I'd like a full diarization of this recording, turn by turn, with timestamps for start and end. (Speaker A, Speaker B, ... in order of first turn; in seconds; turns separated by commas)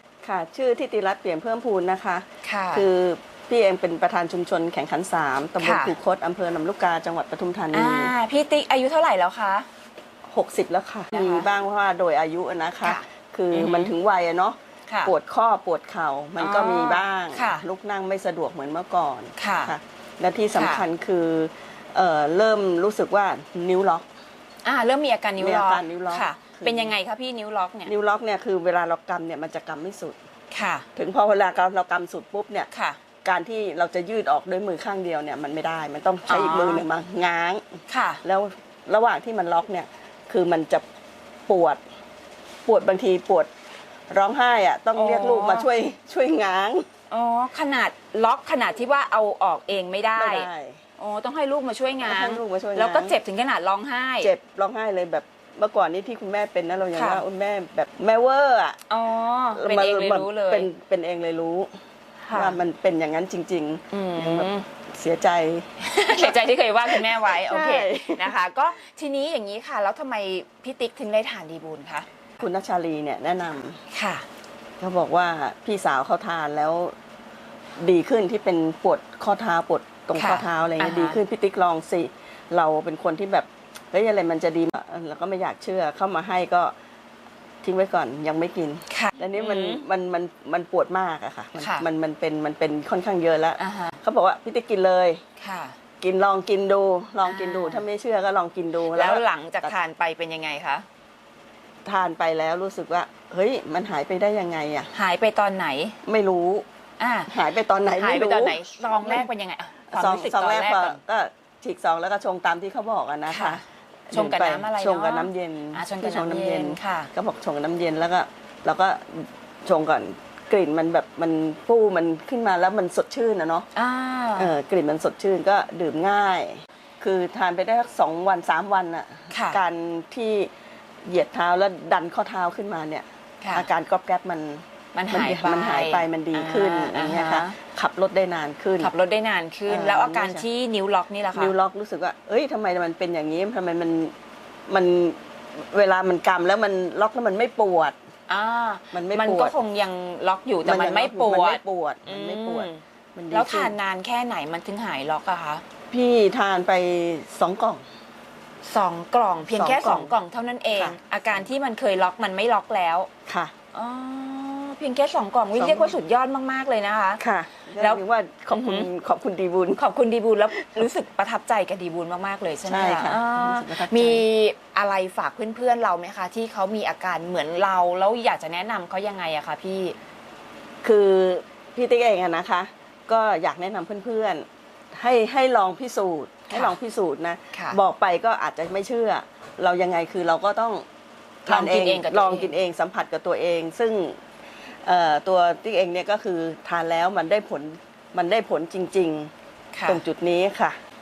Speaker A: 0.2-8.1, Speaker B: 2.4-2.9, Speaker B: 5.6-6.0, Speaker B: 7.7-9.7, Speaker A: 10.3-24.1, Speaker B: 11.1-11.5, Speaker B: 12.8-13.9, Speaker B: 14.9-15.1, Speaker B: 16.4-17.6, Speaker B: 19.4-19.8, Speaker B: 20.5-20.8, Speaker B: 24.6-27.9, Speaker A: 25.4-26.9, Speaker A: 27.9-30.2, Speaker B: 30.5-30.9, Speaker A: 31.0-32.7, Speaker B: 32.7-33.0, Speaker A: 33.2-37.6, Speaker B: 36.3-36.8, Speaker B: 37.9-38.2, Speaker A: 38.2-40.9, Speaker A: 41.5-41.8, Speaker A: 42.7-43.5, Speaker A: 44.1-46.9, Speaker B: 44.9-45.7, Speaker B: 47.1-50.5, Speaker A: 50.1-50.8, Speaker B: 51.0-54.3, Speaker A: 52.0-53.1, Speaker A: 54.2-58.8, Speaker B: 56.9-57.2, Speaker B: 58.9-60.7, Speaker A: 59.5-61.7, Speaker B: 62.2-62.6, Speaker A: 62.3-66.3, Speaker B: 63.9-64.7, Speaker B: 65.8-72.1, Speaker A: 66.9-68.4, Speaker A: 72.4-73.8, Speaker B: 73.9-74.3, Speaker A: 74.8-76.9, Speaker A: 77.8-86.7, Speaker B: 80.1-81.2, Speaker A: 87.6-95.2, Speaker B: 88.9-89.8, Speaker B: 91.6-91.9, Speaker B: 93.6-94.0, Speaker B: 95.4-95.8, Speaker A: 96.0-99.7, Speaker B: 97.2-97.9, Speaker B: 98.9-100.8, Speaker A: 101.8-104.9, Speaker B: 104.9-106.0, Speaker A: 106.0-106.7, Speaker B: 107.0-107.3, Speaker A: 107.3-109.3, Speaker B: 107.9-111.0, Speaker A: 109.9-123.7, Speaker B: 113.3-117.1, Speaker B: 123.8-124.5, Speaker A: 124.4-130.5, Speaker B: 129.3-129.6, Speaker A: 131.1-138.9, Speaker B: 133.4-133.7, Speaker B: 134.9-137.6, Speaker B: 138.8-141.5, Speaker A: 139.7-140.4, Speaker A: 141.3-144.1, Speaker A: 144.7-148.0, Speaker B: 148.3-155.6, Speaker A: 148.9-149.6, Speaker A: 150.7-153.7, Speaker A: 155.9-157.8, Speaker B: 158.6-163.1, Speaker A: 159.5-160.1, Speaker A: 163.3-163.5, Speaker B: 163.7-167.2, Speaker A: 165.6-166.0, Speaker A: 167.2-169.8, Speaker B: 167.8-168.9, Speaker B: 169.8-180.0, Speaker A: 170.6-170.9, Speaker A: 172.7-174.2, Speaker A: 180.8-190.8, Speaker B: 186.5-186.8, Speaker B: 187.5-187.8, Speaker A: 191.5-194.2, Speaker B: 191.5-192.5, Speaker A: 194.8-199.3, Speaker B: 199.7-200.0, Speaker A: 199.9-200.8